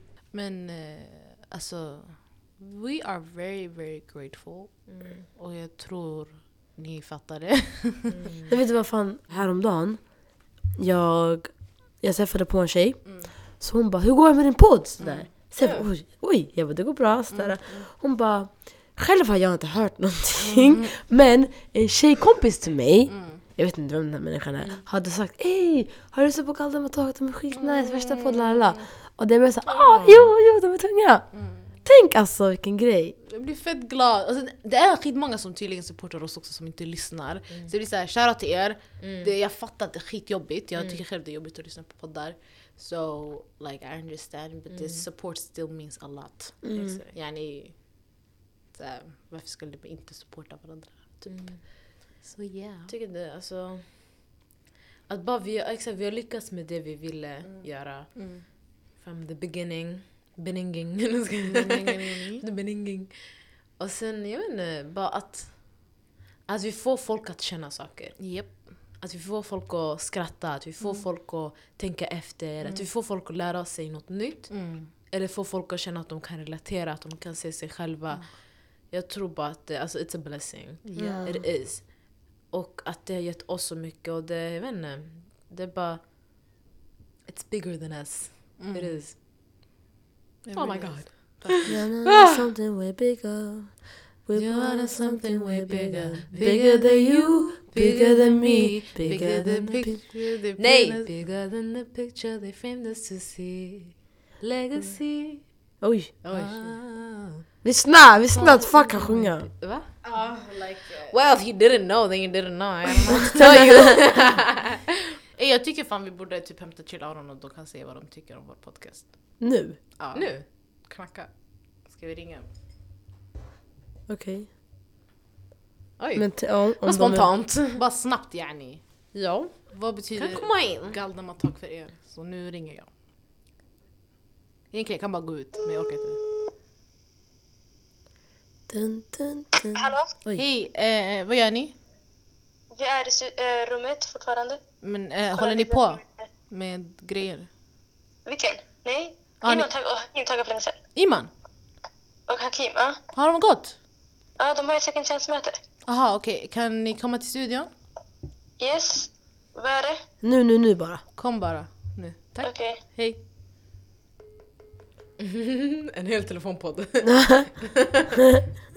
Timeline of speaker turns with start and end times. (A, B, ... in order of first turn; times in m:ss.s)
0:00.3-0:08.1 A
0:04.9-0:05.2 B
0:08.1-0:08.5 B
0:08.5-0:33.2 C
0:13.0-0:13.3 A
0:15.0-0:15.8 A
0:17.3-0:17.9 A
0:20.4-0:20.9 A
0:23.1-0:23.4 A
0:27.5-0:28.8 A
0:29.8-0:30.2 A
0:31.3-0:31.7 A
0:33.3-0:48.2 A
0:39.0-0:39.3 B
0:44.7-0:45.0 B
0:46.6-0:47.0 C
0:46.7-0:47.1 B
0:48.7-0:52.9 A
0:51.3-0:51.6 B
0:52.9-0:54.2 B
0:55.1-1:26.0 B
0:57.4-0:58.4 A
1:01.5-1:02.4 A
1:08.2-1:08.7 A
1:14.5-1:14.9 A
1:20.8-1:21.2 A
1:21.0-1:21.4 C
1:27.3-1:29.2 B
1:28.6-1:29.0 A
1:30.4-1:31.8 A
1:30.5-1:31.7 B
1:31.6-1:40.0 C
1:34.4-1:38.0 B
1:35.9-1:37.0 A
1:37.9-1:41.1 A
1:39.1-1:39.3 B
1:40.6-1:45.4 B
1:45.8-1:46.1 C
1:46.2-1:46.8 A
1:46.3-1:47.2 B
1:47.6-1:49.5 C
1:48.3-1:49.9 B
1:50.0-1:51.2 A
1:51.1-1:54.4 B
1:52.8-1:54.0 A
1:53.4-1:53.8 C
1:55.4-1:59.4 A
1:59.4-1:59.8 C
2:00.0-2:02.4 A
2:00.1-2:00.4 B
2:04.1-2:04.5 C
2:06.0-2:08.8 A
2:06.1-2:07.3 C
2:07.0-2:07.7 B
2:09.7-2:12.9 A
2:10.1-2:11.0 B
2:14.7-2:16.2 A
2:18.7-2:20.4 C
2:19.7-2:20.1 D
2:20.3-2:21.7 A
2:22.7-2:24.6 D
2:24.8-2:27.5 A
2:25.4-2:26.0 D
2:28.2-2:30.8 D
2:29.4-2:29.7 A
2:30.9-2:31.3 A
2:32.3-2:33.0 D
2:33.1-2:33.7 A
2:34.4-2:35.6 D
2:35.8-2:37.7 A
2:38.6-2:40.0 D
2:40.2-2:41.0 C
2:41.2-2:43.2 A
2:42.4-2:42.8 D
2:46.0-2:46.8 A
2:47.0-2:47.5 C